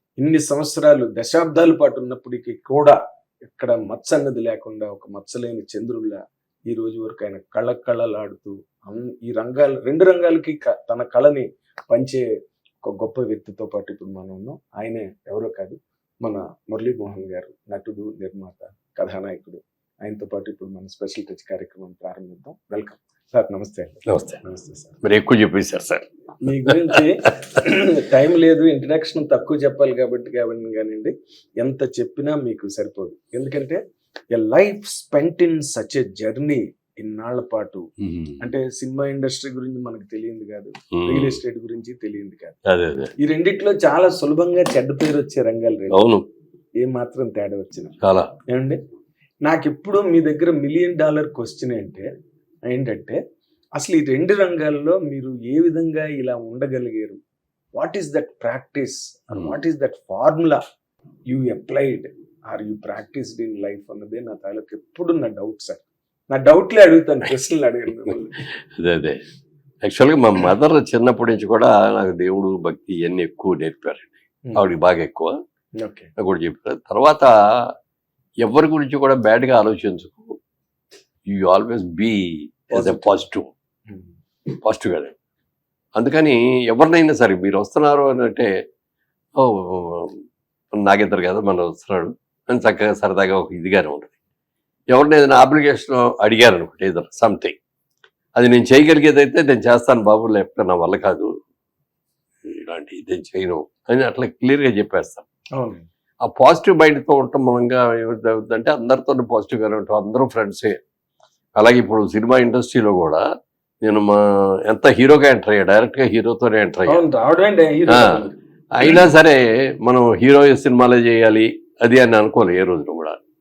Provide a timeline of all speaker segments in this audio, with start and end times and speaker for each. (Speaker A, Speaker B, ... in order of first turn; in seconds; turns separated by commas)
Speaker A: 0.2-12.3, Speaker A: 12.8-25.0, Speaker B: 24.1-24.4, Speaker B: 25.0-26.1, Speaker A: 26.4-33.8, Speaker A: 34.3-37.8, Speaker B: 38.0-38.4, Speaker A: 38.4-42.6, Speaker B: 41.0-41.4, Speaker B: 42.7-43.1, Speaker A: 43.2-46.0, Speaker B: 45.9-46.2, Speaker A: 46.8-48.0, Speaker B: 48.0-48.3, Speaker A: 48.5-48.8, Speaker A: 49.5-52.1, Speaker A: 52.7-53.2, Speaker A: 53.8-57.2, Speaker A: 57.8-60.6, Speaker A: 61.3-68.4, Speaker B: 68.8-69.2, Speaker B: 69.8-75.4, Speaker A: 75.8-76.1, Speaker B: 76.2-77.3, Speaker B: 78.4-80.4, Speaker B: 81.3-83.5, Speaker A: 82.7-83.2, Speaker B: 84.5-85.1, Speaker B: 86.0-88.5, Speaker B: 89.4-90.2, Speaker B: 90.8-94.1, Speaker B: 94.9-97.6, Speaker B: 98.4-101.3, Speaker B: 102.5-105.2, Speaker A: 105.6-105.8, Speaker B: 106.2-110.8, Speaker B: 111.6-113.2, Speaker B: 113.8-117.0, Speaker A: 116.9-118.3, Speaker B: 117.9-118.2, Speaker B: 118.8-123.2